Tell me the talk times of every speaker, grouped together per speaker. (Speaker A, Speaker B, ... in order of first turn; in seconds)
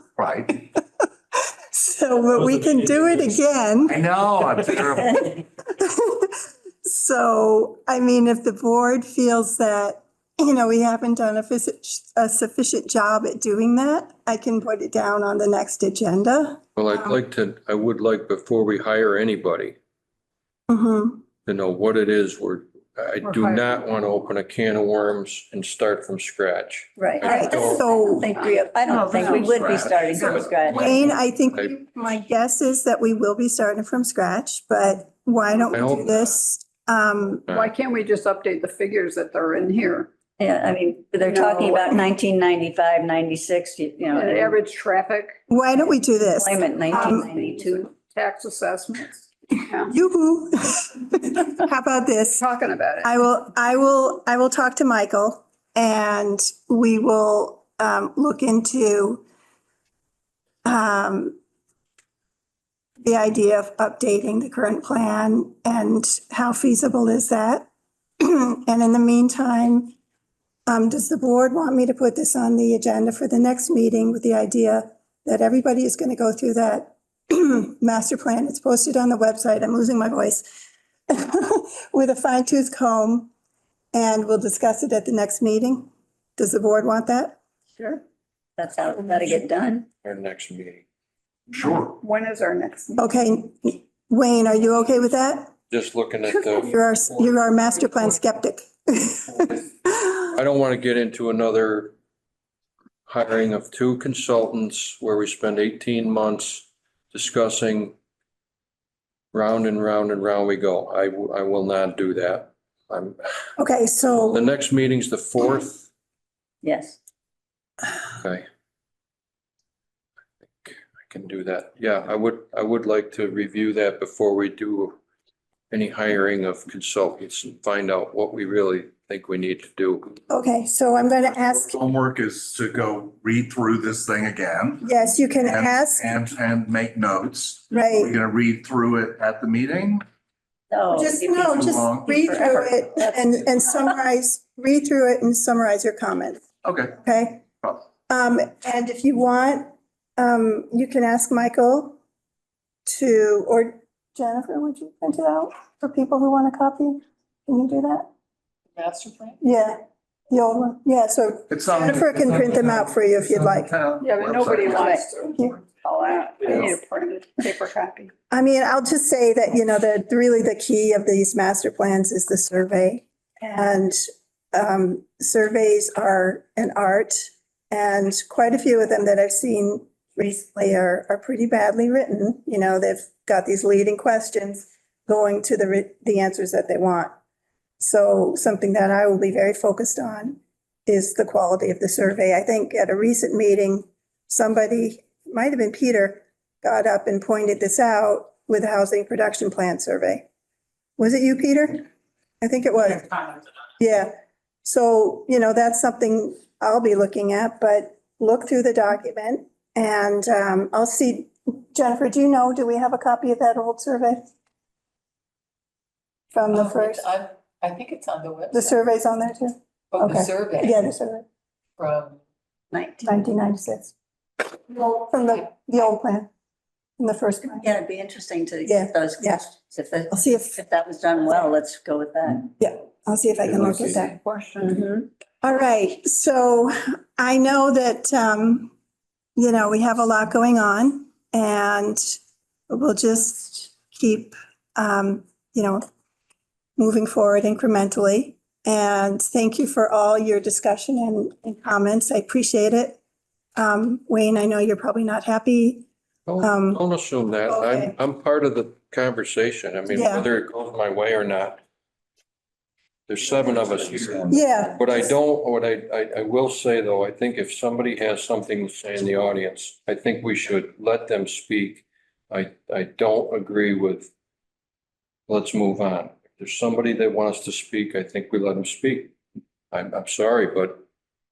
Speaker A: 0.2-0.7, 3.9-5.4, 29.4-31.1, 91.5-92.0, 131.6-134.9, 135.5-140.0, 141.5-142.6, 146.6-146.9, 161.5-165.0
Speaker B: 1.7-4.0, 5.8-17.2, 20.7-21.2, 27.2-29.5, 30.7-37.4, 45.5-47.3, 49.9-52.5, 53.0-59.2, 60.6-61.4, 63.0-67.7, 68.2-70.0, 70.7-80.5, 81.1-83.3, 83.9-88.0, 93.0-95.5, 96.3-100.2, 113.6-114.5, 130.3-131.8, 134.8-136.1, 137.7-138.2, 140.9-146.4, 147.0-147.5, 148.1-152.0, 152.9-158.1, 159.4-163.7, 168.3-174.0, 174.5-187.1, 187.8-200.3, 201.0-201.8, 202.4-204.1, 204.6-214.3, 216.3-217.1, 218.5-221.2, 223.0-223.9, 224.6-226.3, 227.0-227.7, 228.6-229.4, 230.1-230.6, 232.6-234.1, 235.4-238.7, 239.4-245.8, 246.8-253.0, 253.6-255.9, 256.4-256.8, 257.5-258.0, 259.9-260.3, 264.3-265.0
Speaker C: 16.8-19.8, 21.4-27.9, 30.2-30.5, 35.7-36.3, 37.5-37.7, 90.0-90.8, 95.7-97.2, 100.3-101.9, 103.1-108.0, 109.3-113.2, 114.3-115.9, 120.5-125.0, 125.7-130.2, 256.3-261.6, 263.1-274.1, 275.3-279.1, 279.7-280.9
Speaker D: 23.2-23.8, 28.3-28.6, 37.5-40.1, 41.3-42.0, 44.1-45.4, 46.9-49.9, 52.4-53.1, 91.8-93.0, 164.0-168.1, 233.7-234.8
Speaker E: 27.0-31.1, 40.4-44.6, 46.2-47.9, 88.6-89.9, 116.6-117.0, 140.7-143.1, 222.7-223.1, 227.6-232.5, 234.8-235.1
Speaker F: 158.8-159.4, 216.5-218.8, 219.9-220.9, 221.8-222.2